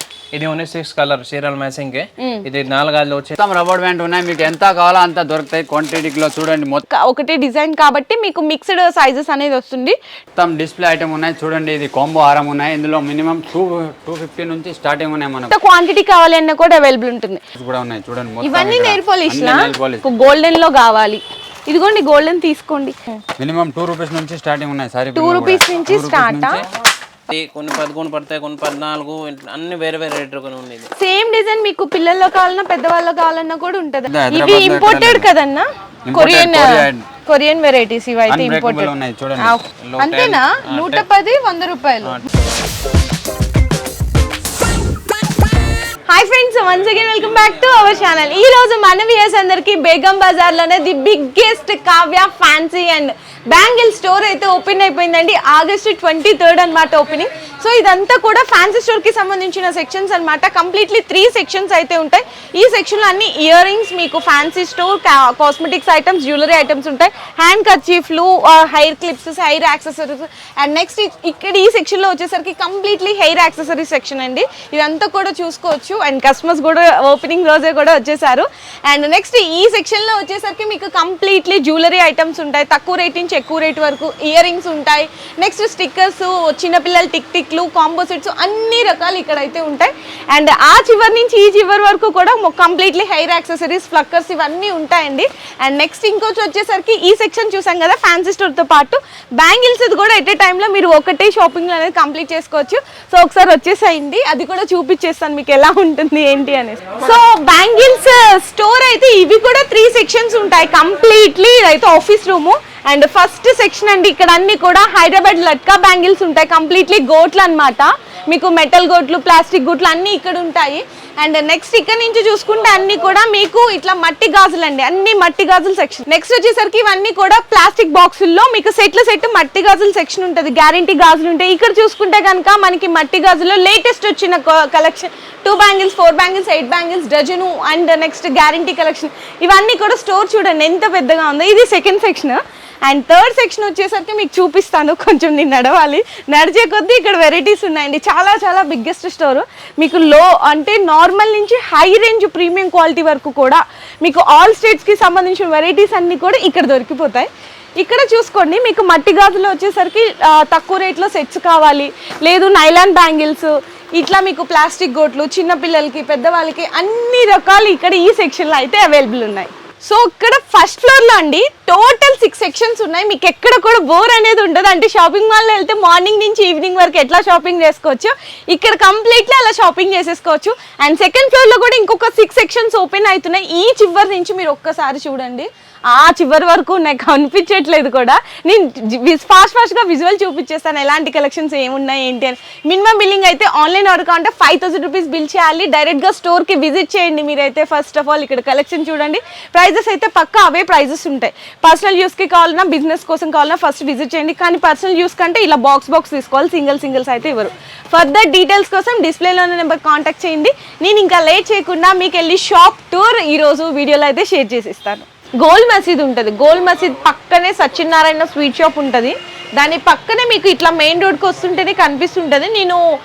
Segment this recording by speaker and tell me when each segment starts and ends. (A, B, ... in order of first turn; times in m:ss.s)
0:00.3-0:03.4 A
0:02.2-0:02.4 B
0:03.4-0:06.8 C
0:06.9-0:10.0 B
0:10.4-0:15.6 C
0:15.5-0:17.4 B
0:17.6-0:20.0 C
0:18.4-0:23.2 B
0:23.4-0:26.6 C
0:25.1-0:26.6 B
0:27.3-0:30.9 A
0:31.0-0:42.2 B
0:34.1-0:35.3 C
0:36.1-0:37.1 C
0:38.3-0:39.6 C
0:39.8-0:41.0 A
0:42.0-0:42.4 A
0:46.1-3:42.8 B